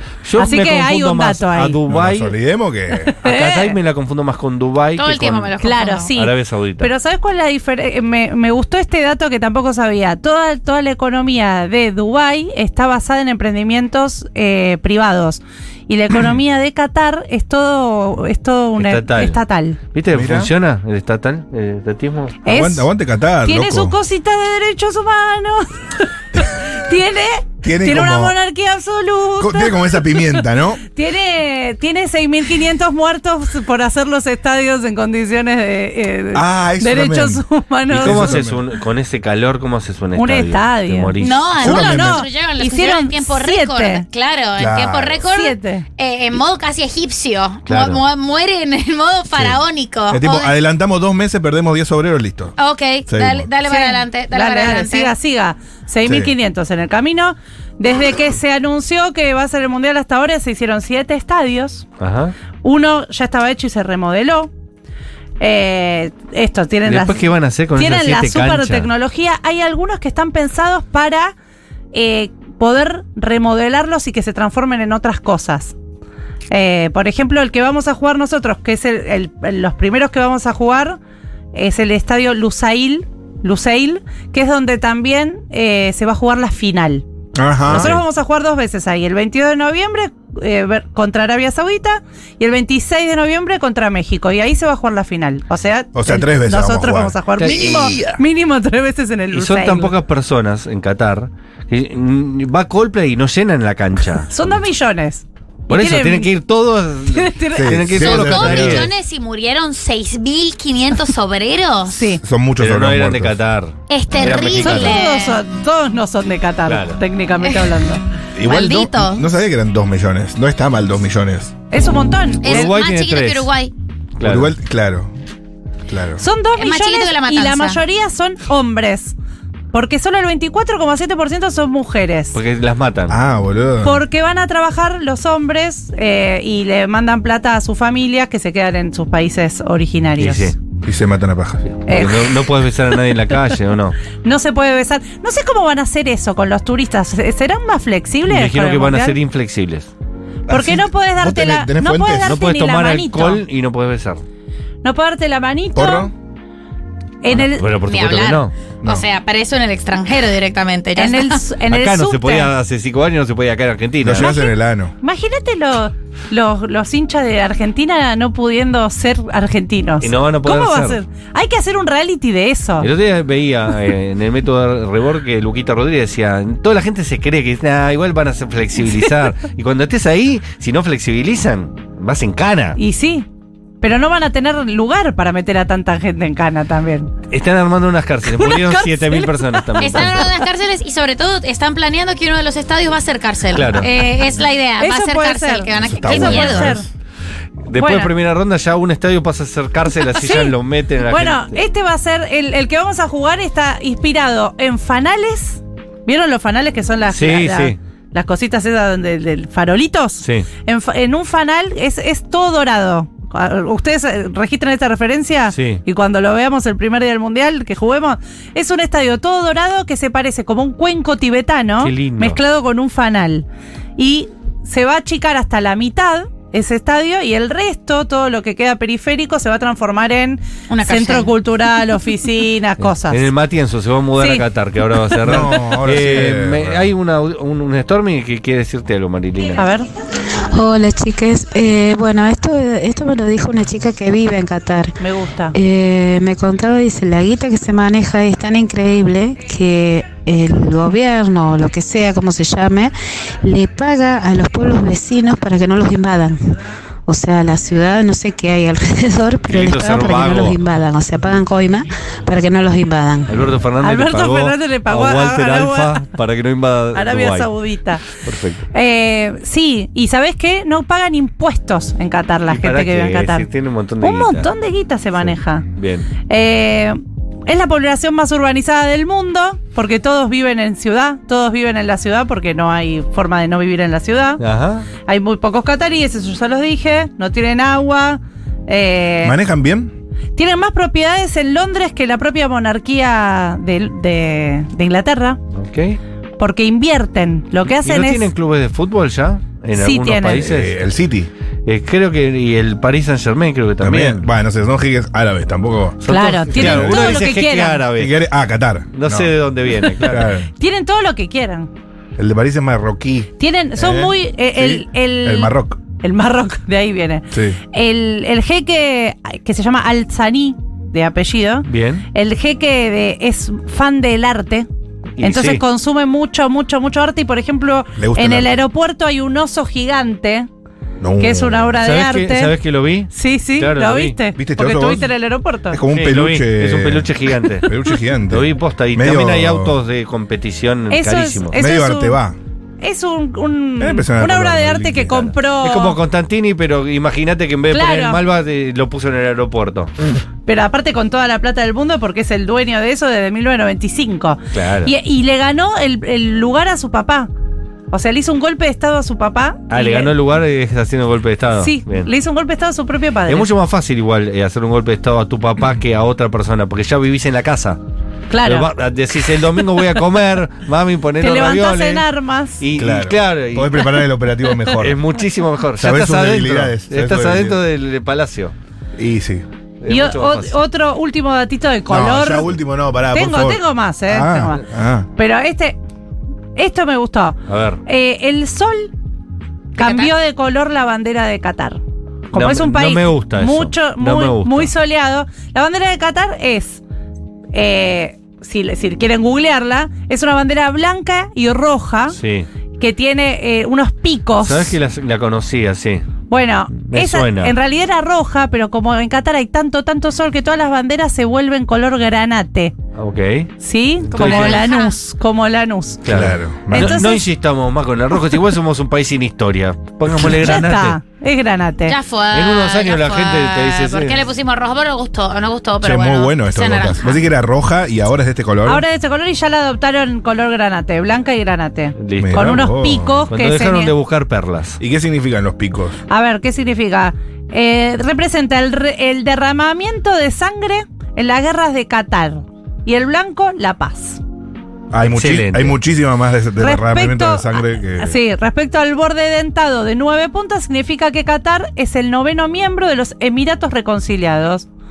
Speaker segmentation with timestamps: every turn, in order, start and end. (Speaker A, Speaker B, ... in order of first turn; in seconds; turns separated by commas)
Speaker A: 0.2-2.3, Speaker B: 0.4-1.8, Speaker C: 1.9-3.1, Speaker B: 3.0-3.8, Speaker A: 3.2-5.5, Speaker D: 5.0-6.1, Speaker B: 5.6-19.8, Speaker A: 6.1-6.9, Speaker A: 18.8-19.4, Speaker A: 19.9-22.4, Speaker C: 20.1-20.5, Speaker B: 22.4-22.9, Speaker C: 22.4-23.9, Speaker B: 23.4-38.4, Speaker C: 27.6-28.4, Speaker C: 29.4-30.8, Speaker C: 36.3-38.6, Speaker A: 37.9-41.5, Speaker B: 40.1-44.0, Speaker D: 41.2-50.5, Speaker C: 41.6-42.3, Speaker C: 44.6-45.2, Speaker B: 45.3-45.9, Speaker A: 47.7-48.0, Speaker C: 50.1-52.5, Speaker D: 52.6-55.1, Speaker C: 53.1-53.5, Speaker B: 53.6-61.9, Speaker C: 56.0-56.3, Speaker A: 62.0-62.3, Speaker B: 62.6-64.5, Speaker B: 65.4-67.2, Speaker A: 66.8-68.9, Speaker B: 67.7-71.3, Speaker B: 71.9-75.7, Speaker B: 76.5-81.0, Speaker B: 81.5-87.0, Speaker C: 87.3-88.0, Speaker B: 87.7-99.9, Speaker A: 87.7-88.0, Speaker C: 95.9-98.1, Speaker A: 97.4-98.2, Speaker A: 99.3-104.5, Speaker B: 104.3-106.3, Speaker A: 105.7-108.9, Speaker B: 107.1-108.0, Speaker C: 107.5-108.9, Speaker D: 108.0-112.1, Speaker B: 111.9-112.2, Speaker C: 112.2-113.4, Speaker A: 112.6-115.0, Speaker D: 113.9-115.4, Speaker B: 114.6-118.0, Speaker A: 116.7-117.0, Speaker C: 118.3-121.5, Speaker D: 118.4-119.2, Speaker B: 121.7-122.7, Speaker D: 122.4-123.7, Speaker A: 122.4-123.5, Speaker A: 124.2-124.5, Speaker C: 124.2-125.1, Speaker C: 125.9-126.2, Speaker B: 126.2-129.2, Speaker D: 126.5-127.8, Speaker B: 129.7-132.4, Speaker A: 132.3-133.2, Speaker C: 133.1-134.0, Speaker B: 133.8-140.5, Speaker A: 140.2-140.6, Speaker C: 140.8-141.7, Speaker A: 141.8-144.0, Speaker B: 141.8-142.3, Speaker B: 144.2-149.2, Speaker A: 148.3-149.9, Speaker C: 150.5-152.4, Speaker B: 150.5-153.4, Speaker A: 152.2-154.2, Speaker B: 154.8-156.1, Speaker C: 155.7-156.1, Speaker B: 157.2-157.7, Speaker A: 157.3-158.5, Speaker D: 157.8-161.4, Speaker B: 160.9-162.5, Speaker A: 161.7-164.3, Speaker C: 164.0-164.9, Speaker B: 164.2-172.9, Speaker A: 170.0-171.0, Speaker A: 172.8-182.8, Speaker B: 182.8-183.3, Speaker B: 183.8-187.1, Speaker A: 187.3-190.3, Speaker B: 188.2-190.3, Speaker D: 189.8-196.8, Speaker A: 193.5-193.9, Speaker B: 194.8-196.8, Speaker C: 195.8-196.8, Speaker A: 197.7-201.6, Speaker B: 197.8-198.1, Speaker B: 200.1-200.6, Speaker B: 201.1-233.3, Speaker A: 207.1-207.8, Speaker A: 210.2-210.5, Speaker A: 215.5-215.8, Speaker A: 221.8-222.4, Speaker D: 230.7-231.3, Speaker A: 232.9-239.6, Speaker B: 234.2-234.4, Speaker C: 235.2-236.9, Speaker B: 239.6-239.9, Speaker E: 240.5-244.9, Speaker B: 245.0-245.6, Speaker E: 245.5-263.5, Speaker A: 259.5-260.6, Speaker A: 263.3-267.5, Speaker B: 263.8-266.1, Speaker B: 266.9-268.1, Speaker A: 268.1-268.6, Speaker B: 268.7-273.5, Speaker A: 272.5-274.5, Speaker B: 274.0-275.7, Speaker A: 275.2-276.1, Speaker B: 276.2-284.4, Speaker A: 284.4-284.9, Speaker B: 285.1-289.4, Speaker C: 289.2-289.9, Speaker B: 290.4-295.4, Speaker A: 295.5-296.0, Speaker B: 296.4-298.3, Speaker A: 297.7-300.8, Speaker B: 299.7-300.5, Speaker C: 300.4-301.3, Speaker A: 301.6-304.3, Speaker C: 303.8-307.2, Speaker A: 306.0-308.2, Speaker B: 306.1-307.8, Speaker C: 307.9-309.4, Speaker A: 308.9-310.3, Speaker C: 309.9-310.5, Speaker B: 310.6-311.7, Speaker C: 312.2-315.8, Speaker B: 313.4-324.7, Speaker C: 317.3-317.6, Speaker A: 321.6-322.1, Speaker A: 325.2-325.6, Speaker B: 325.2-330.5, Speaker C: 328.0-328.6, Speaker C: 331.0-331.8, Speaker B: 331.2-332.5, Speaker A: 331.8-334.2, Speaker B: 333.1-335.8, Speaker C: 334.4-335.1, Speaker C: 335.7-339.8, Speaker A: 335.9-337.7, Speaker A: 338.3-341.6, Speaker B: 340.9-342.2, Speaker C: 341.5-342.4, Speaker B: 342.8-346.0, Speaker C: 343.8-345.3, Speaker A: 345.6-349.9, Speaker B: 347.7-348.2, Speaker B: 350.4-357.3, Speaker A: 354.5-354.9, Speaker B: 357.9-360.1, Speaker A: 359.7-362.1, Speaker B: 361.6-363.5, Speaker A: 363.3-367.8, Speaker B: 368.3-368.7, Speaker A: 368.4-372.1, Speaker B: 371.2-372.6, Speaker A: 372.6-373.9, Speaker C: 372.8-375.0, Speaker A: 374.8-378.5, Speaker C: 375.8-377.6, Speaker C: 379.0-379.4, Speaker A: 379.8-380.6, Speaker B: 379.9-382.5, Speaker C: 381.9-385.1, Speaker B: 383.1-385.8, Speaker B: 386.6-388.9, Speaker A: 387.5-387.8, Speaker D: 389.8-390.1, Speaker B: 389.8-391.8, Speaker B: 392.3-396.8, Speaker A: 392.3-394.7, Speaker B: 397.5-402.2, Speaker A: 402.1-402.5, Speaker B: 402.8-404.8, Speaker A: 404.4-406.0, Speaker B: 406.3-412.8, Speaker A: 406.8-407.5, Speaker A: 412.9-413.5, Speaker B: 413.6-416.0, Speaker D: 414.1-414.9, Speaker A: 414.1-414.6, Speaker A: 416.0-421.0, Speaker C: 416.1-417.0, Speaker B: 416.7-417.3, Speaker B: 420.1-421.9, Speaker D: 421.9-427.2, Speaker A: 422.3-424.2, Speaker C: 425.8-428.8, Speaker B: 428.6-433.9, Speaker A: 432.0-432.7, Speaker C: 432.2-433.3, Speaker A: 433.3-434.8, Speaker C: 434.8-436.0, Speaker B: 436.1-444.2, Speaker C: 444.9-448.2, Speaker A: 445.1-445.8, Speaker B: 446.6-454.7